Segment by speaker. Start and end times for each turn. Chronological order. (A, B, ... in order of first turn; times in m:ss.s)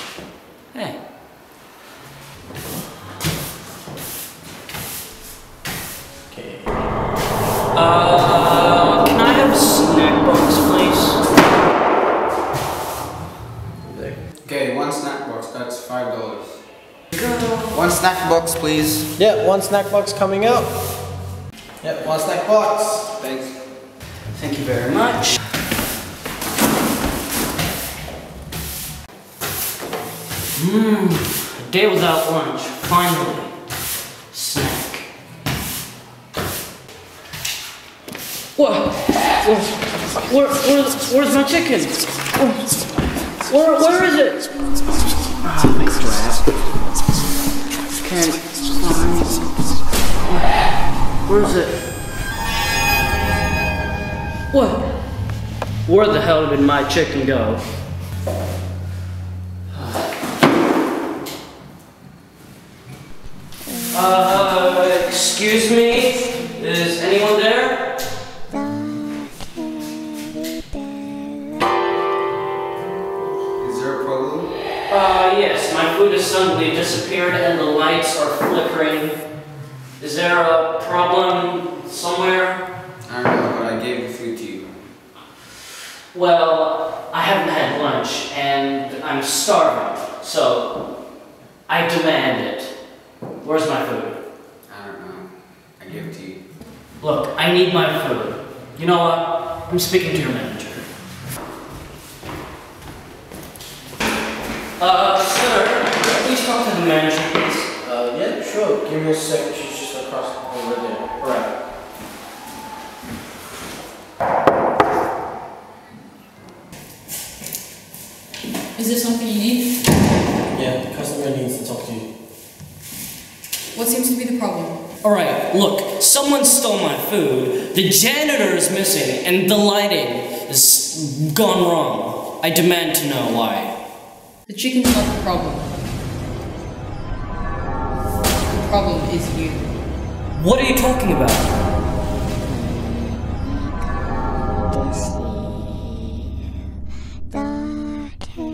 0:00.7-0:01.0 A
0:06.3-0:06.7 B
0:07.7-0:11.2 A
0:13.8-0:14.2 B
0:14.4-0:16.6 C
0:17.1-0:17.8 A
0:17.7-0:19.1 C
0:19.2-0:20.7 B
0:21.8-0:23.1 B
0:23.2-0:23.6 C
0:24.3-0:25.4 A
0:30.6-0:33.5 A
0:34.3-0:35.1 A
0:38.5-0:42.6 A
0:43.4-0:44.5 A
0:45.4-0:46.4 A
0:48.0-0:49.4 A
0:51.2-0:51.8 A
0:54.5-0:55.1 A
0:55.8-0:57.6 A
0:59.7-1:00.1 A
1:03.9-1:08.0 A
1:13.6-1:14.5 C
1:14.9-1:19.2 A
1:20.0-1:22.6 A
1:23.0-1:24.7 C
1:26.1-1:31.0 A
1:31.7-1:32.8 A
1:33.4-1:34.2 A
1:34.6-1:36.4 C
1:37.0-1:40.8 A
1:44.8-1:47.7 A
1:47.8-1:51.5 B
1:58.8-1:59.7 D
2:00.5-2:02.0 B
2:03.7-2:04.8 D
2:05.0-2:13.8 A
2:14.5-2:15.7 D
2:18.5-2:19.7 D
2:20.3-2:21.5 A